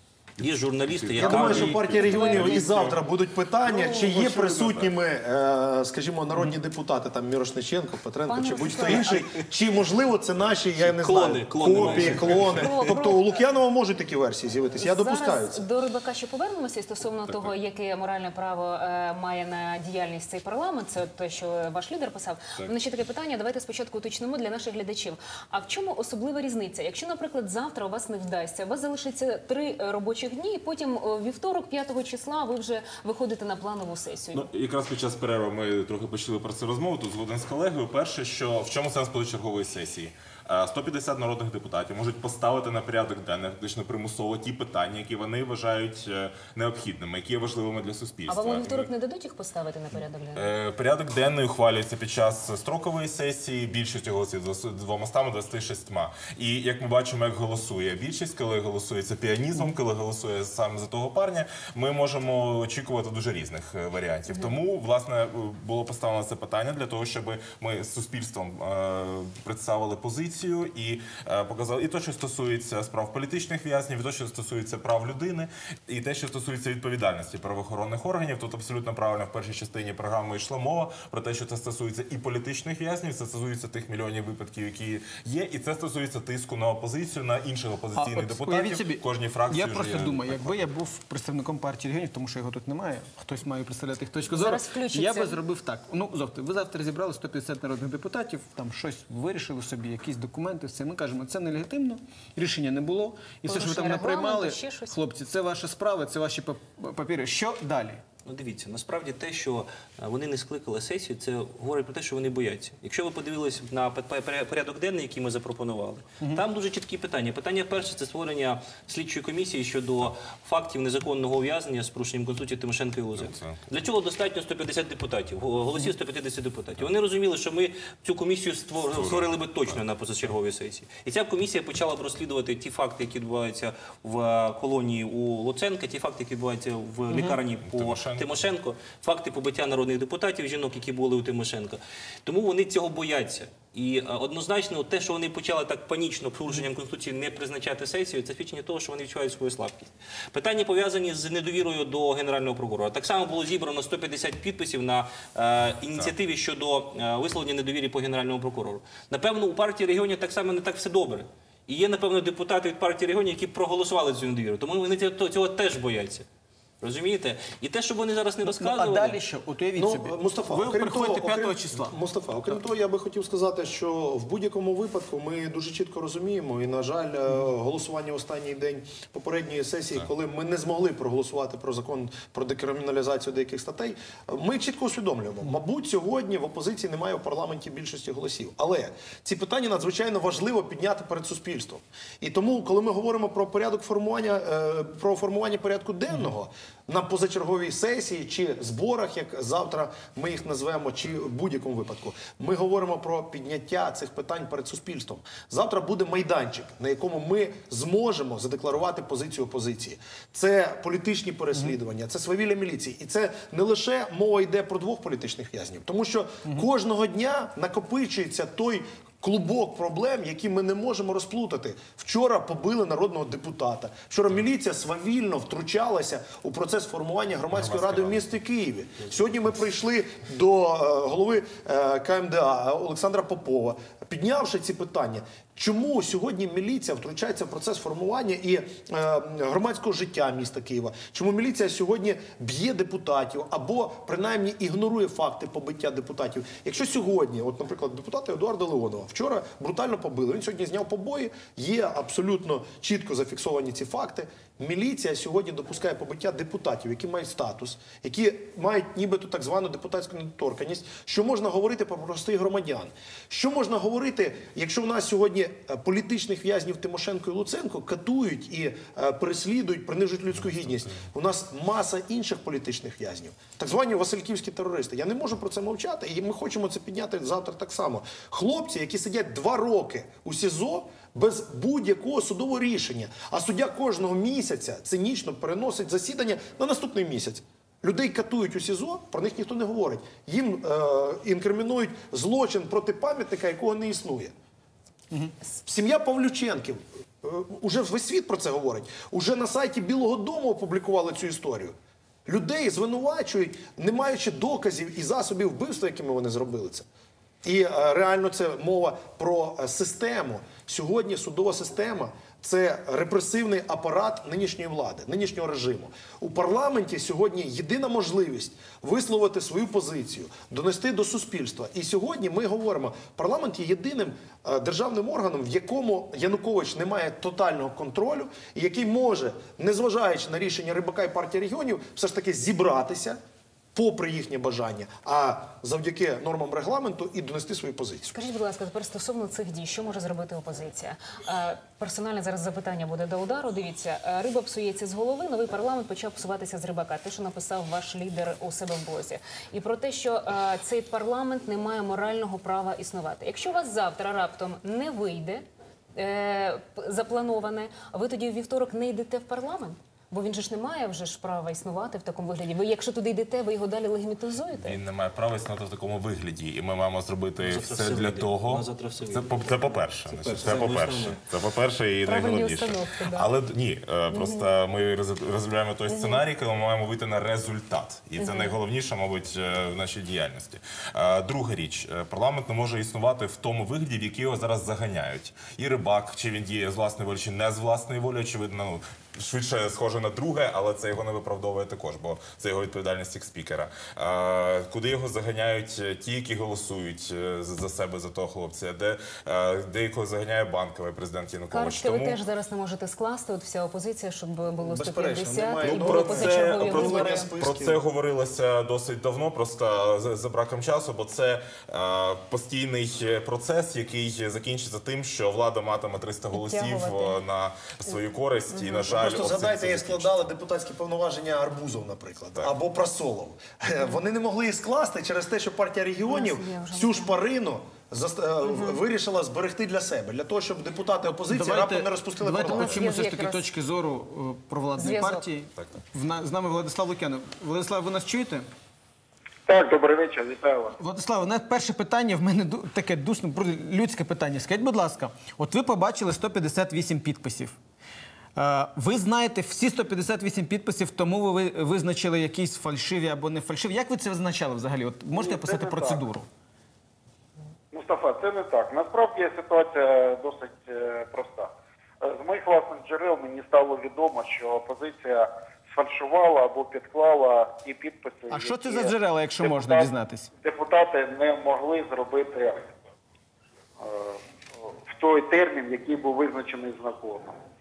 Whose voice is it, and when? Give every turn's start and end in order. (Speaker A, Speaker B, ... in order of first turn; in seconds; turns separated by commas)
Speaker A: 0.4-2.3, Speaker B: 0.9-3.0, Speaker C: 1.2-15.6, Speaker D: 2.1-2.7, Speaker B: 3.6-4.9, Speaker D: 8.2-9.5, Speaker A: 10.7-13.0, Speaker B: 11.8-12.5, Speaker D: 12.6-13.4, Speaker D: 14.8-34.5, Speaker B: 34.3-48.9, Speaker D: 48.3-50.5, Speaker B: 50.3-90.5, Speaker E: 87.9-108.0, Speaker D: 94.3-95.4, Speaker D: 103.5-104.9, Speaker A: 108.3-166.3, Speaker B: 123.2-123.6, Speaker B: 128.9-129.3, Speaker E: 137.1-137.4, Speaker B: 137.7-138.4, Speaker A: 166.8-169.2, Speaker E: 168.4-172.6, Speaker C: 169.8-294.3, Speaker B: 227.5-228.3, Speaker C: 295.6-301.7, Speaker C: 302.3-306.9, Speaker C: 307.4-333.2, Speaker C: 333.7-338.1, Speaker D: 338.1-364.8, Speaker B: 364.5-402.2, Speaker A: 367.4-371.2, Speaker D: 372.0-373.3, Speaker D: 374.1-374.4, Speaker D: 375.9-376.2, Speaker D: 378.2-378.6, Speaker D: 401.5-407.3, Speaker C: 404.6-407.8, Speaker B: 405.6-420.3, Speaker D: 416.3-417.2, Speaker D: 418.5-418.8, Speaker C: 418.9-432.9, Speaker D: 426.1-427.2, Speaker D: 428.4-428.8, Speaker E: 431.3-438.5, Speaker D: 432.4-433.4, Speaker D: 434.8-435.2, Speaker F: 439.4-440.8, Speaker E: 440.8-447.6, Speaker E: 448.4-456.3, Speaker F: 455.1-456.0, Speaker F: 457.7-461.5, Speaker F: 462.0-469.9, Speaker E: 468.3-470.3, Speaker F: 470.4-472.7, Speaker F: 473.8-474.2, Speaker F: 474.7-477.4